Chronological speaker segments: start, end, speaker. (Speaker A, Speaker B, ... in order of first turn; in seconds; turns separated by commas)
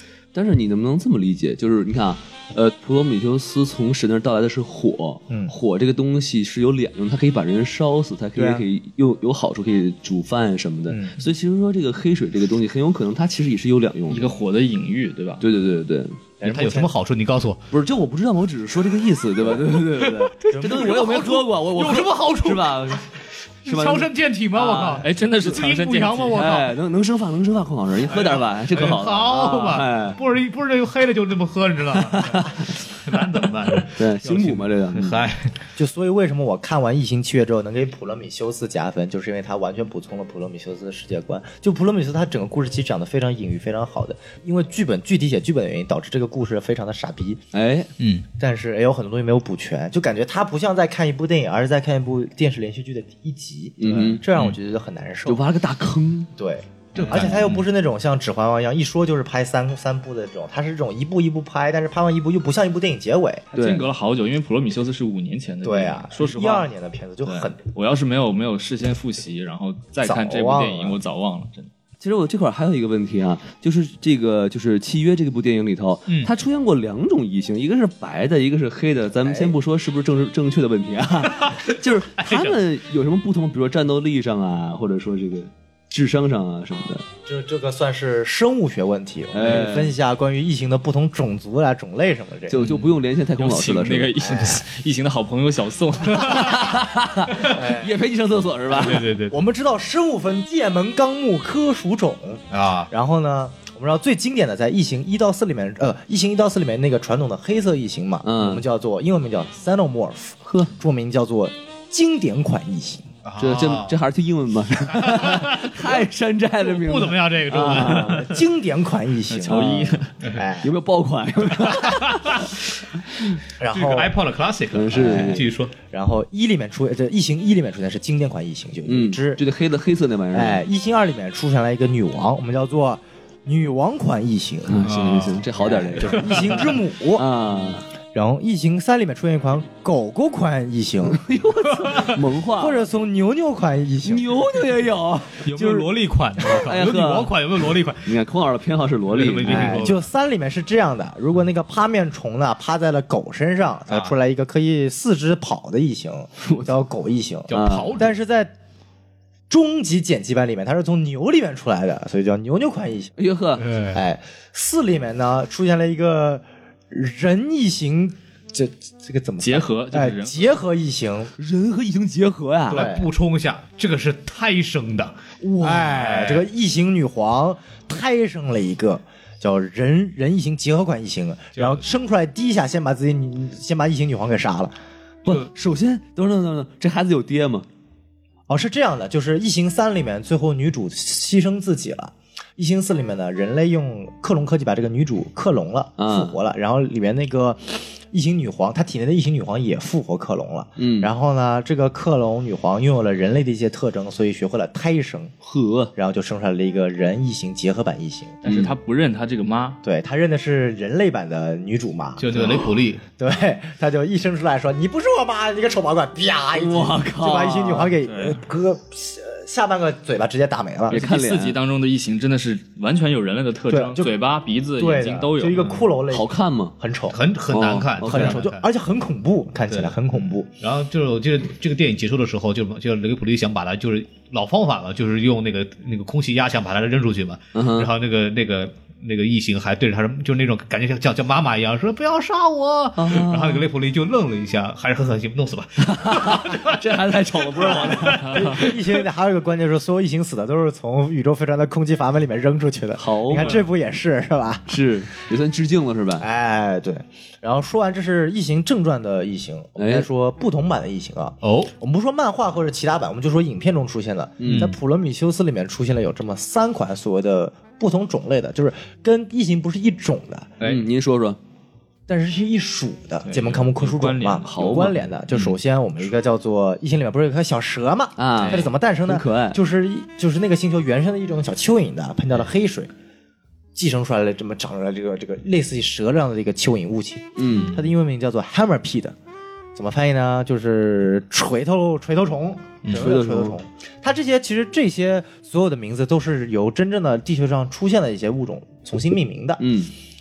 Speaker A: 0.3-14.3, Speaker B: 8.4-8.7, Speaker B: 10.9-11.2, Speaker C: 14.1-15.4, Speaker A: 15.4-16.2, Speaker B: 16.4-16.9, Speaker D: 16.4-17.7, Speaker A: 17.7-23.1, Speaker D: 20.0-26.8, Speaker B: 20.5-21.0, Speaker A: 23.6-25.1, Speaker C: 25.0-26.6, Speaker A: 26.3-30.2, Speaker D: 28.1-35.6, Speaker A: 32.1-32.6, Speaker A: 33.9-35.3, Speaker B: 35.8-47.4, Speaker A: 47.5-47.9, Speaker D: 48.0-48.3, Speaker B: 48.4-55.4, Speaker A: 53.8-54.2, Speaker D: 53.9-54.6, Speaker A: 55.3-56.3, Speaker B: 56.4-63.5, Speaker D: 57.0-57.7, Speaker C: 63.5-66.7, Speaker A: 63.5-63.9, Speaker B: 65.6-67.6, Speaker C: 67.2-71.7, Speaker B: 70.0-71.0, Speaker A: 72.0-87.1, Speaker B: 79.2-79.5, Speaker D: 81.3-82.6, Speaker B: 87.3-92.6, Speaker A: 89.3-90.0, Speaker A: 92.5-94.2, Speaker D: 92.6-92.9, Speaker C: 93.4-96.8, Speaker B: 94.2-94.6, Speaker A: 96.3-99.1, Speaker B: 97.4-98.0, Speaker B: 98.8-113.1, Speaker D: 98.8-99.4, Speaker D: 102.5-102.9, Speaker A: 108.2-108.7, Speaker A: 110.5-110.7, Speaker D: 113.2-114.0, Speaker A: 113.4-118.2, Speaker D: 115.0-116.1, Speaker D: 116.6-118.4, Speaker B: 117.7-119.7, Speaker C: 119.3-120.1, Speaker A: 119.5-120.1, Speaker B: 120.2-120.7, Speaker A: 120.6-122.4, Speaker D: 121.6-122.5, Speaker B: 123.6-124.2, Speaker D: 123.7-125.7, Speaker A: 124.7-125.5, Speaker B: 124.9-129.4, Speaker A: 128.9-130.6, Speaker B: 130.3-134.9, Speaker A: 134.7-137.9, Speaker D: 134.8-135.4, Speaker B: 135.6-137.3, Speaker D: 136.1-136.5, Speaker B: 138.1-141.2, Speaker A: 141.1-142.8, Speaker D: 141.7-142.2, Speaker B: 142.6-144.3, Speaker A: 144.0-145.5, Speaker D: 145.4-148.1, Speaker B: 145.5-145.9, Speaker A: 146.4-147.4, Speaker A: 148.0-149.9, Speaker D: 149.1-150.0, Speaker B: 149.4-158.5, Speaker D: 153.9-154.1, Speaker D: 157.5-158.1, Speaker A: 157.5-157.9, Speaker B: 159.5-163.2, Speaker A: 163.2-163.7, Speaker D: 163.6-164.0, Speaker B: 163.9-171.3, Speaker C: 169.4-170.6, Speaker A: 171.4-172.9, Speaker B: 172.7-173.1, Speaker D: 172.7-176.5, Speaker B: 175.4-184.7, Speaker D: 181.6-181.8, Speaker A: 185.2-187.7, Speaker B: 188.5-205.3, Speaker A: 196.0-196.4, Speaker A: 200.8-201.1, Speaker A: 205.4-205.9, Speaker B: 205.9-208.4, Speaker C: 208.4-209.8, Speaker A: 208.5-208.7, Speaker B: 209.8-221.0, Speaker D: 212.2-213.0, Speaker A: 216.5-217.9, Speaker C: 218.0-218.4, Speaker A: 220.9-221.6, Speaker C: 220.9-225.7, Speaker B: 223.7-224.1, Speaker B: 224.8-227.2, Speaker A: 226.1-226.8, Speaker D: 227.1-228.6, Speaker A: 227.5-228.4, Speaker B: 228.0-230.5, Speaker D: 229.7-246.8, Speaker A: 237.5-237.9, Speaker A: 243.0-243.7, Speaker A: 245.8-248.6, Speaker D: 247.6-248.7, Speaker B: 247.6-254.8, Speaker A: 253.0-253.6, Speaker A: 254.7-256.3, Speaker B: 256.2-270.5, Speaker A: 259.8-260.1, Speaker D: 261.4-261.7, Speaker A: 264.4-264.7, Speaker D: 264.4-264.8, Speaker A: 270.6-271.4, Speaker B: 272.1-282.9, Speaker C: 273.2-275.0, Speaker A: 274.4-274.9, Speaker A: 278.2-279.6, Speaker C: 278.4-278.6, Speaker B: 283.8-289.2, Speaker A: 287.4-287.7, Speaker D: 287.5-287.9, Speaker B: 289.8-299.6, Speaker A: 292.9-293.6, Speaker A: 299.6-299.9